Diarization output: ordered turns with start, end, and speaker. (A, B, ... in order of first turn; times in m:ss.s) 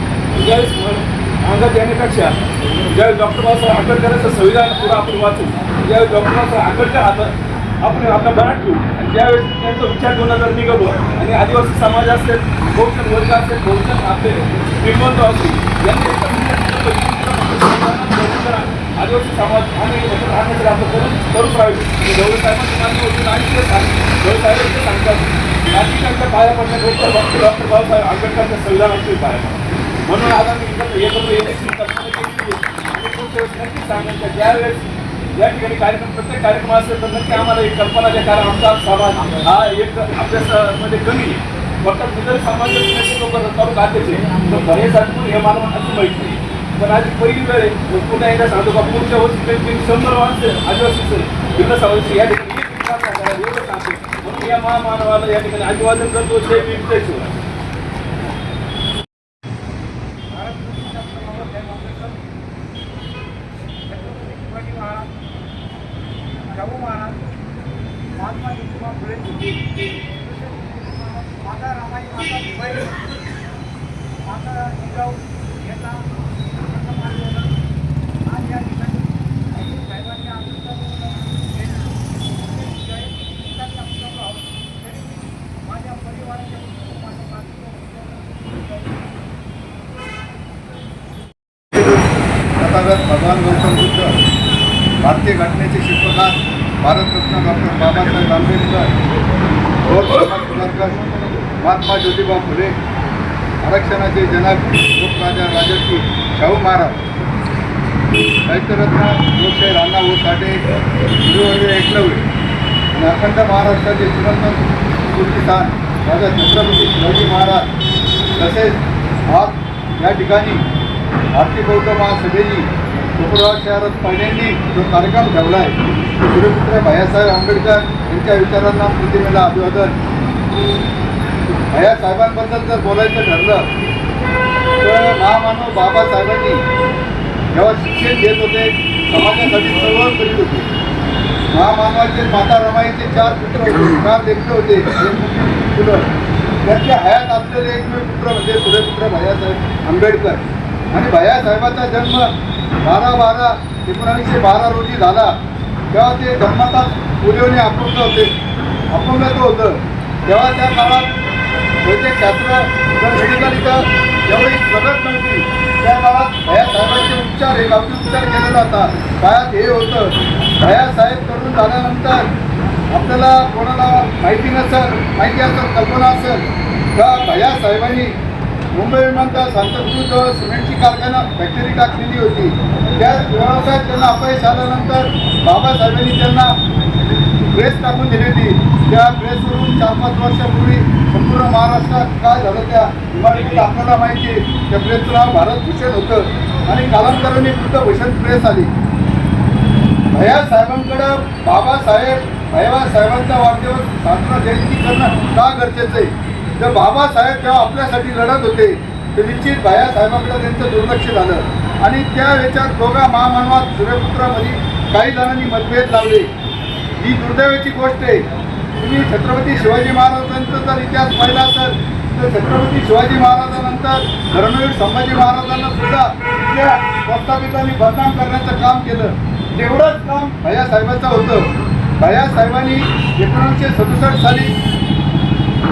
0:00.3-0:57.4 A
1:00.6-1:00.9 B
1:00.9-1:02.0 C
1:01.6-1:02.0 B
1:04.0-1:05.1 B
1:06.6-1:07.2 B
1:08.3-1:09.0 C
1:08.4-1:09.5 B
1:10.2-1:12.9 B
1:14.5-1:15.2 B
1:15.8-1:16.0 B
1:16.7-1:17.4 C
1:17.0-1:17.4 B
1:18.4-1:19.0 B
1:19.5-1:21.9 B
1:22.6-1:24.4 C
1:25.7-1:28.0 C
1:32.6-1:34.2 C
1:35.0-1:38.9 C
1:39.8-1:41.0 C
1:41.6-1:42.7 C
1:43.6-1:47.0 C
1:48.5-1:50.6 C
1:51.2-1:52.2 C
1:53.0-1:57.6 C
1:58.4-2:00.6 C
2:01.3-2:10.0 C
2:11.7-2:13.7 C
2:14.8-2:16.6 C
2:17.5-2:20.7 C
2:21.5-2:26.1 C
2:26.6-2:32.3 C
2:32.8-2:35.3 C
2:35.9-2:38.3 C
2:38.9-2:41.1 C
2:41.8-2:52.2 C
2:52.9-2:56.4 C
2:57.0-2:58.1 C
2:58.8-3:06.5 C
3:07.5-3:18.7 C
3:20.1-3:36.3 C
3:37.0-3:38.2 C
3:38.8-3:51.4 C
3:52.0-3:54.5 C